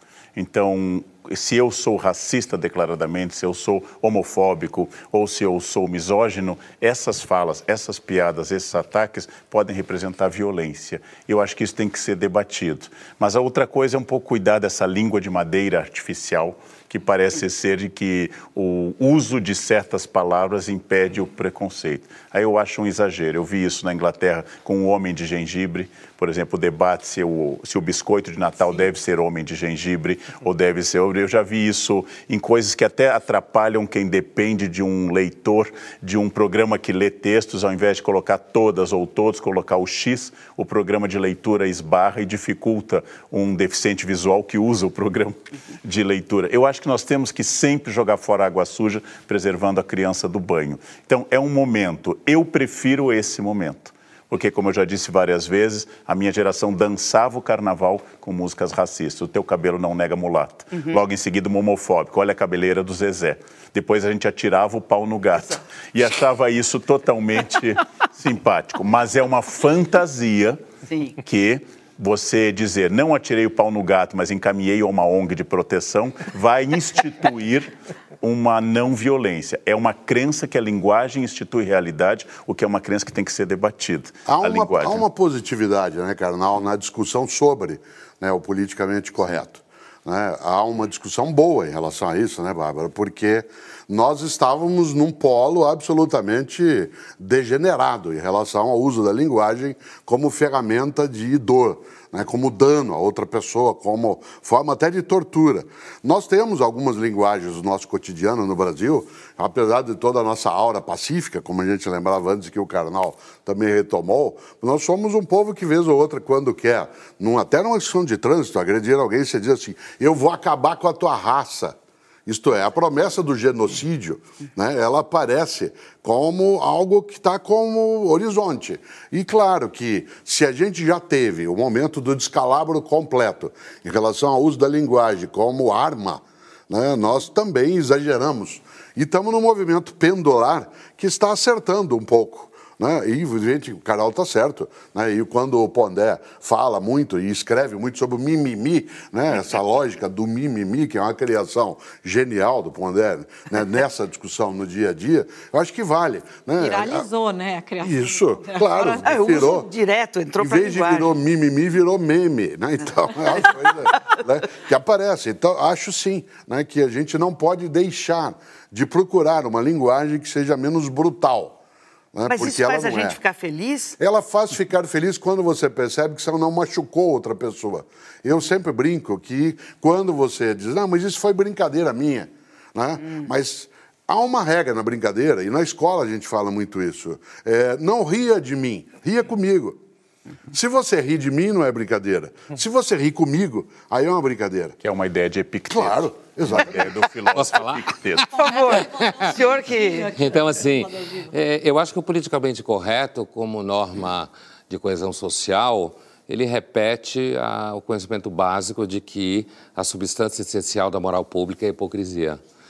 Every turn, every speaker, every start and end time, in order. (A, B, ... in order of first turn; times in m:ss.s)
0:00.3-1:10.6 A
1:00.7-1:01.0 B
1:10.8-1:11.2 B
1:11.2-1:25.0 A
1:24.3-2:37.1 C
2:36.6-2:39.2 D
2:37.8-2:39.7 C
2:39.0-2:41.1 B
2:40.4-2:51.6 C
2:52.1-2:53.2 C
2:52.2-2:54.0 B
2:54.0-3:09.8 C
3:10.5-3:14.8 C
3:14.8-3:18.4 A
3:15.7-3:17.0 C
3:17.3-3:17.8 E
3:18.3-3:20.1 B
3:18.4-3:21.3 D
3:18.7-3:19.3 E
3:20.1-3:32.4 E